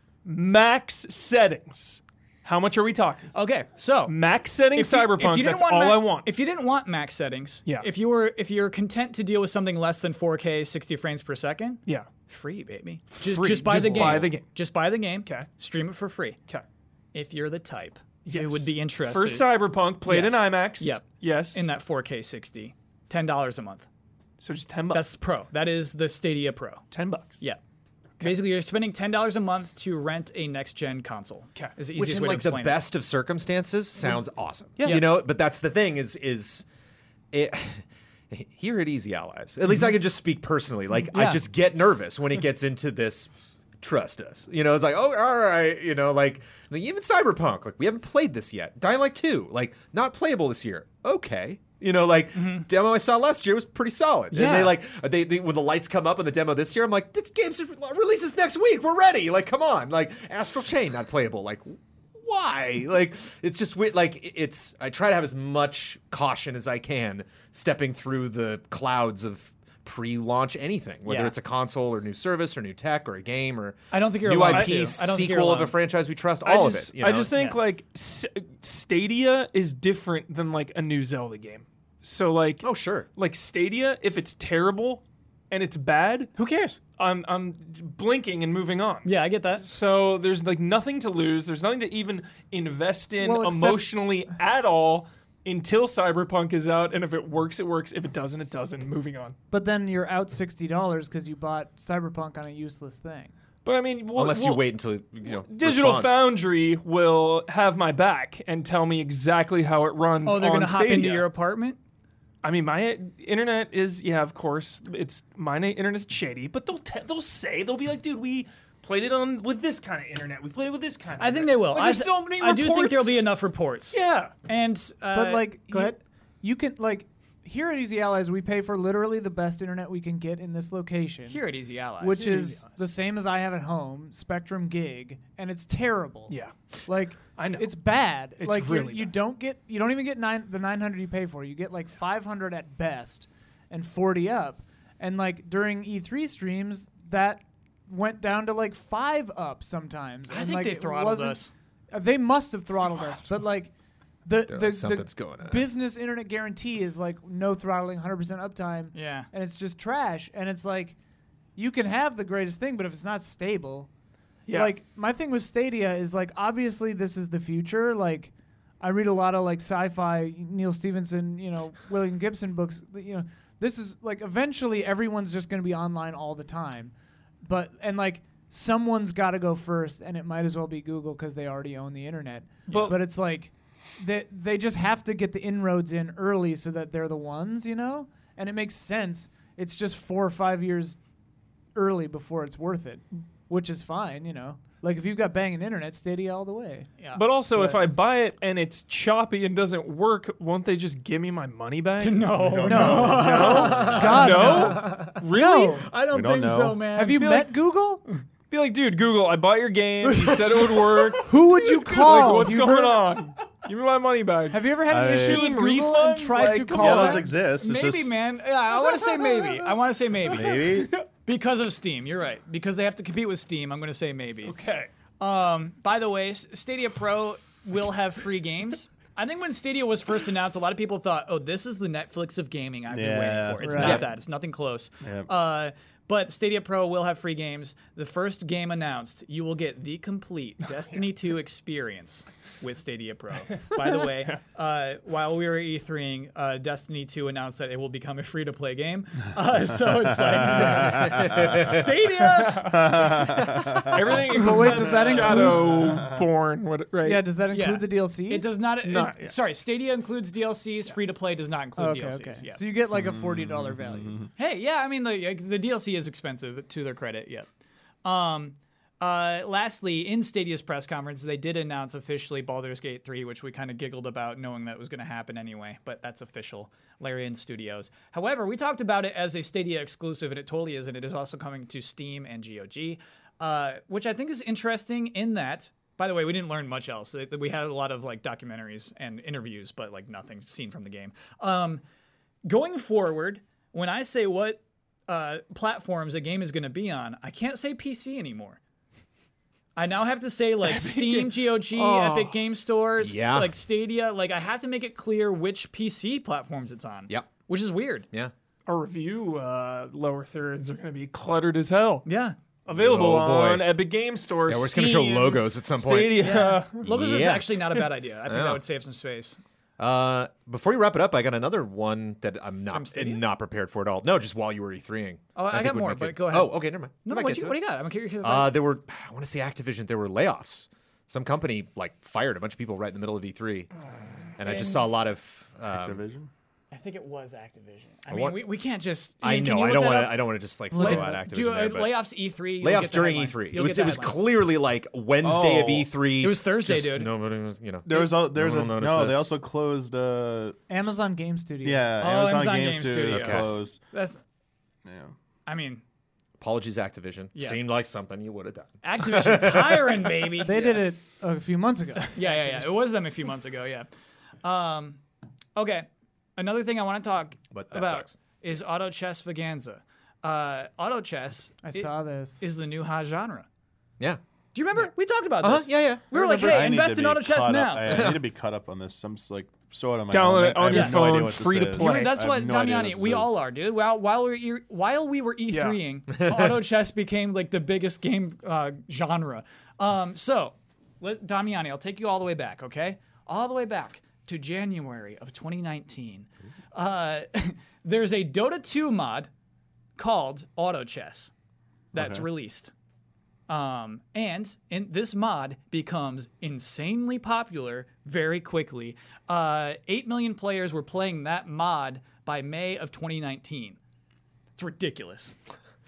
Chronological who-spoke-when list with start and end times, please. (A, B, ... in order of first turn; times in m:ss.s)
0:00.2-0:03.3 A
0:03.3-0:04.2 B
0:04.1-0:06.3 A
0:04.7-0:16.4 B
0:13.1-0:14.5 A
0:13.9-0:14.3 C
0:17.1-0:19.5 B
0:18.2-0:21.6 A
0:20.0-0:23.9 B
0:24.4-0:25.0 A
0:24.9-0:26.9 B
0:26.9-0:27.4 A
0:28.2-0:32.8 B
0:32.0-0:36.6 C
0:34.8-0:35.0 A
0:37.3-1:17.4 C
0:41.1-0:41.4 B
0:52.3-0:52.7 B
0:54.3-0:54.7 B
1:11.1-1:11.3 B
1:13.9-1:15.7 B
1:14.5-1:14.8 A
1:16.4-1:26.3 A
1:17.3-1:17.6 B
1:22.6-1:23.1 C
1:26.4-1:26.8 B
1:27.0-1:39.4 A
1:29.0-1:29.7 B
1:33.2-1:33.9 D
1:39.5-1:43.3 D
1:43.6-1:44.6 A
1:44.2-1:46.2 C
1:45.2-1:51.3 A
1:50.2-1:51.8 B
1:52.4-2:03.3 A
2:01.2-2:06.0 B
2:03.9-2:04.4 A
2:05.1-2:11.4 D
2:11.3-2:12.4 B
2:12.0-2:33.7 D
2:12.2-2:12.8 A
2:16.3-2:16.6 A
2:17.2-2:17.8 A
2:18.4-2:19.1 A
2:30.3-2:31.5 B
2:34.2-2:41.0 D
2:34.5-2:35.7 C
2:38.9-2:39.3 B
2:41.6-2:43.9 D
2:44.5-2:44.7 A
2:44.5-3:11.0 D
3:02.7-3:03.0 A
3:11.8-3:16.9 D
3:17.2-3:25.8 A
3:17.6-3:17.8 D
3:22.0-3:27.3 B
3:22.4-3:24.4 E
3:22.7-3:25.9 D
3:26.1-3:26.8 E
3:26.9-3:28.0 D
3:27.2-3:27.5 A
3:28.5-3:37.2 A
3:30.1-3:31.2 B
3:31.2-3:33.1 D
3:34.5-3:37.3 D
3:34.9-3:35.6 E
3:36.7-3:38.2 E
3:36.9-3:44.6 B
3:38.9-3:39.7 A
3:40.3-3:40.9 E
3:44.4-3:44.9 A
3:45.2-4:13.5 B
3:52.9-3:54.0 E
3:53.6-3:54.0 D
3:53.8-3:54.1 C
3:55.0-3:55.3 E
4:03.7-4:04.4 A
4:10.8-4:11.9 C
4:12.4-4:12.9 A
4:12.7-4:14.1 E
4:13.5-4:14.0 C
4:13.8-4:17.2 A
4:14.3-4:16.0 D
4:14.3-4:14.8 B
4:14.9-4:16.2 E
4:17.0-4:18.5 D
4:17.5-4:22.6 B
4:18.8-4:19.4 A
4:21.8-4:24.2 D
4:22.9-4:24.3 E
4:24.4-4:27.5 B
4:28.0-4:51.8 B
4:52.5-4:58.6 B
4:59.8-5:08.1 B
5:00.6-5:02.4 A
5:03.0-5:03.5 C
5:08.7-5:12.1 A
5:12.0-5:12.4 B
5:12.7-5:16.8 A
5:12.7-5:13.7 C
5:14.5-5:18.6 C
5:16.2-5:19.4 B
5:19.8-5:27.6 C
5:22.7-5:23.2 B
5:25.4-5:28.6 B
5:28.2-5:33.7 C
5:34.4-5:36.0 C
5:34.4-5:35.1 B
5:35.7-5:36.3 E
5:36.7-5:44.2 B
5:38.1-5:38.4 C
5:39.2-5:42.0 C
5:40.7-5:41.2 D
5:42.6-5:49.3 C
5:45.2-5:45.9 E
5:46.2-5:47.1 B
5:47.9-5:50.9 E
5:50.7-5:51.9 D
5:51.6-5:53.8 E
5:52.0-5:54.2 B
5:53.1-5:53.6 C
5:54.8-5:55.1 E
5:55.5-5:55.8 B
5:56.4-6:00.1 C
5:58.8-6:00.8 B
6:00.4-6:02.3 D
6:02.1-6:03.9 B
6:04.4-6:05.0 B
6:05.6-6:13.5 B
6:07.5-6:08.2 C
6:11.6-6:12.4 D
6:14.5-6:18.1 B
6:15.4-6:16.0 C
6:16.1-6:23.4 E
6:17.9-6:18.2 C
6:20.1-6:22.1 A
6:20.6-6:39.3 B
6:25.5-6:25.8 A
6:26.2-6:26.5 C
6:40.0-6:41.3 B
6:41.9-6:42.3 E
6:41.9-6:42.7 B
6:43.5-6:53.8 B
6:54.6-6:55.4 B